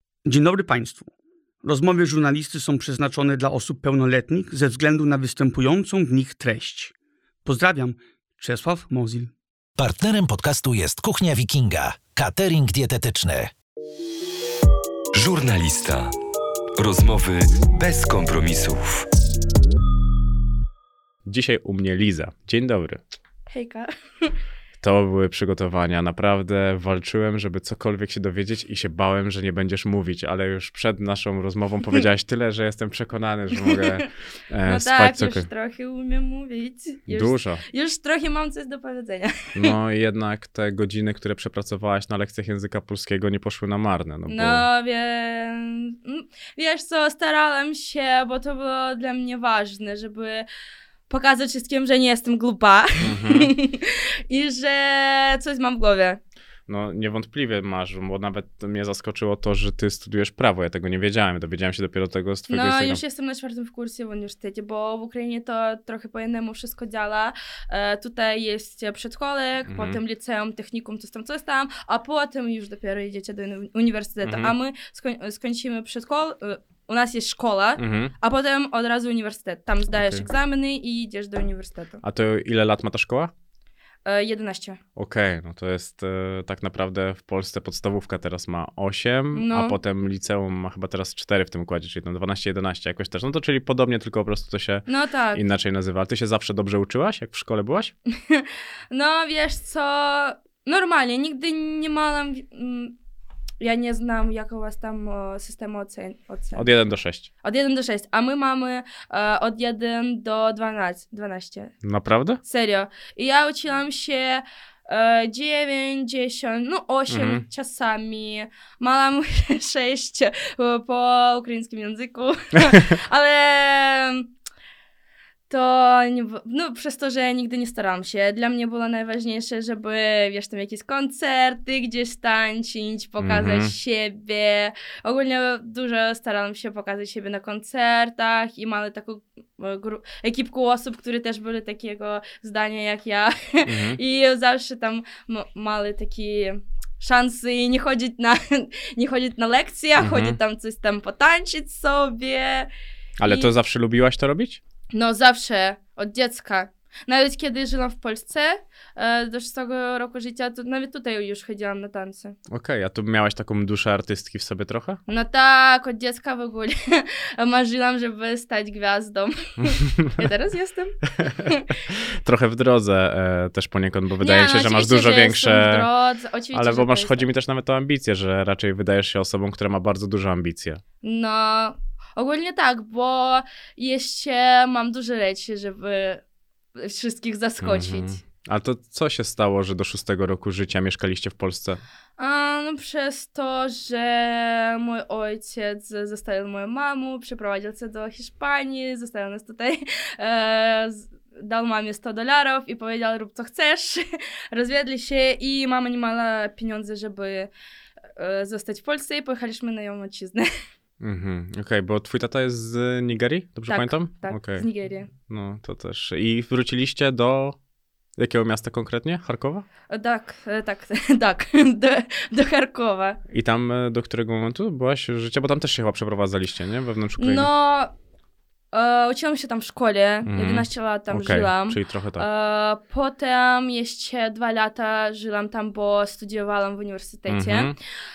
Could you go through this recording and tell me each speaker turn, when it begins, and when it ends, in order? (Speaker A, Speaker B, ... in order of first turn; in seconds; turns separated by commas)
Speaker A: 0.3-1.1, Speaker A: 1.6-6.9, Speaker A: 7.5-9.3, Speaker B: 9.8-13.5, Speaker C: 15.2-16.1, Speaker C: 16.8-19.1, Speaker D: 21.3-23.0, Speaker E: 23.5-24.3, Speaker D: 24.8-35.5, Speaker E: 33.7-34.0, Speaker E: 34.7-39.7, Speaker D: 37.1-37.6, Speaker D: 39.6-44.7, Speaker E: 44.3-50.5, Speaker E: 51.1-56.2, Speaker D: 53.0-53.5, Speaker D: 56.7-63.0, Speaker E: 62.5-82.0, Speaker D: 69.7-70.0, Speaker D: 74.2-74.5, Speaker D: 77.8-78.1, Speaker D: 82.0-83.3, Speaker E: 84.1-84.8, Speaker D: 85.0-97.9, Speaker E: 89.3-89.8, Speaker E: 94.9-95.4, Speaker E: 98.2-103.0, Speaker E: 103.6-106.7, Speaker D: 106.6-107.3, Speaker E: 107.4-111.7, Speaker D: 111.8-112.4, Speaker E: 112.4-124.3, Speaker D: 117.1-117.4, Speaker E: 125.5-152.7, Speaker D: 133.2-133.7, Speaker D: 143.7-144.0, Speaker D: 150.0-150.4, Speaker D: 153.2-154.6, Speaker E: 153.2-153.5, Speaker E: 154.9-162.4, Speaker D: 162.5-165.0, Speaker E: 165.1-171.7, Speaker D: 171.2-175.9, Speaker E: 174.2-177.3, Speaker D: 176.5-180.8, Speaker E: 181.0-186.2, Speaker E: 186.8-188.2, Speaker D: 187.6-191.8, Speaker E: 192.2-207.5, Speaker E: 208.2-210.5, Speaker D: 211.0-217.6, Speaker E: 213.7-215.1, Speaker D: 218.2-219.7, Speaker E: 219.9-223.2, Speaker D: 223.3-227.5, Speaker E: 227.2-227.9, Speaker E: 228.7-237.8, Speaker D: 230.3-232.3, Speaker D: 237.3-237.8